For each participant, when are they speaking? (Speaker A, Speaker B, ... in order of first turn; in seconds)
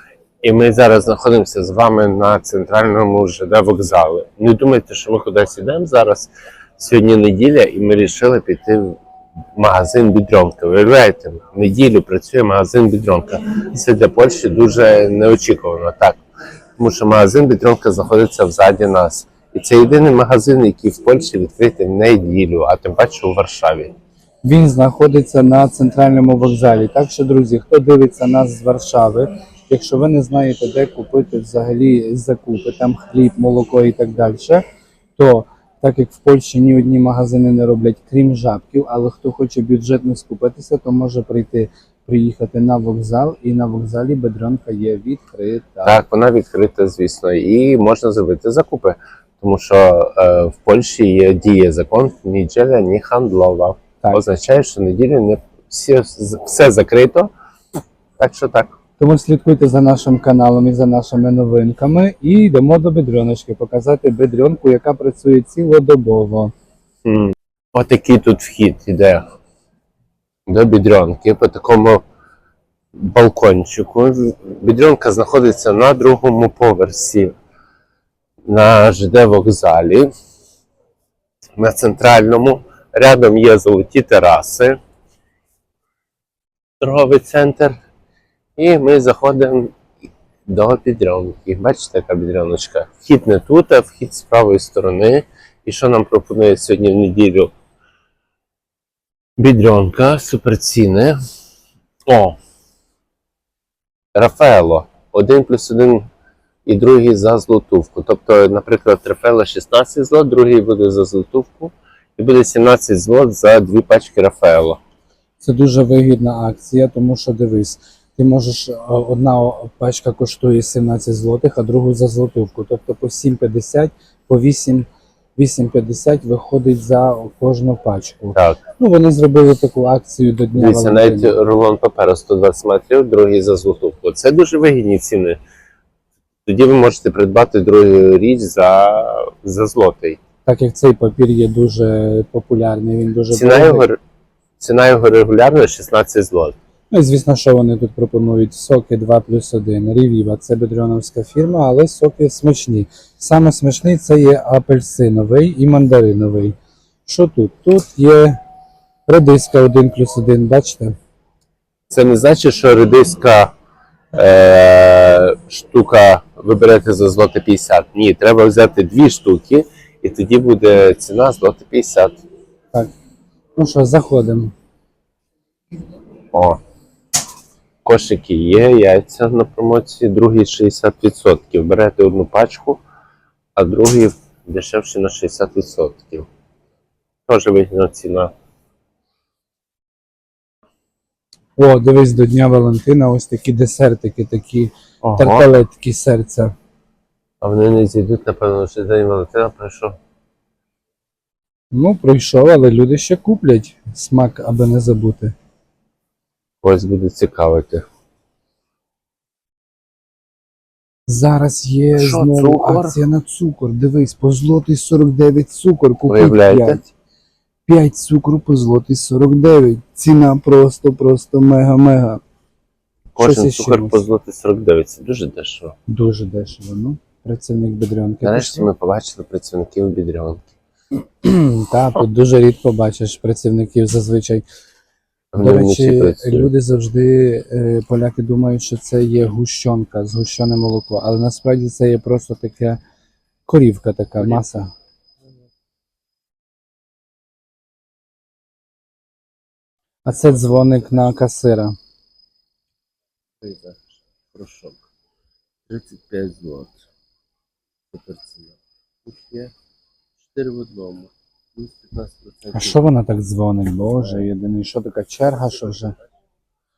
Speaker A: 0.4-9.0, 9.6-16.2, 16.8-23.9, 45.8-57.3, 58.2-58.8, 67.0-69.2, 70.5-72.0, 72.9-77.3, 78.5-80.1, 81.6-84.8, 86.8-87.8, 88.6-97.5, 99.4-101.2, 102.1-102.4, 104.1-106.1, 106.7-114.8, 128.3-128.6, 130.5-135.4, 136.4-140.2, 143.3-144.0, 144.6-146.6, 161.9-163.5, 164.1-172.2, 176.3-176.6, 177.8-182.8, 183.6-186.3, 187.3-188.3, 195.0-195.4, 197.4-200.0, 206.6-207.8, 211.9-213.0, 216.1-216.8, 223.2-225.8, 228.2-230.4, 235.3-236.5, 244.2-244.4, 253.4-254.8, 255.7-256.9, 257.9-259.5, 260.2-262.9, 264.0-264.3, 265.4-266.0
Speaker B: 24.4-34.6, 35.2-46.0, 59.0-66.5, 115.4-131.4, 140.4-143.9, 146.9-158.4, 159.1-161.0, 173.6-174.5, 191.6-196.5, 201.7-205.3, 211.1-216.9, 217.7-222.2, 223.2-224.0, 225.9-228.7, 231.2-234.4, 235.4-242.8, 243.5-244.7, 250.0-251.8, 262.5-265.9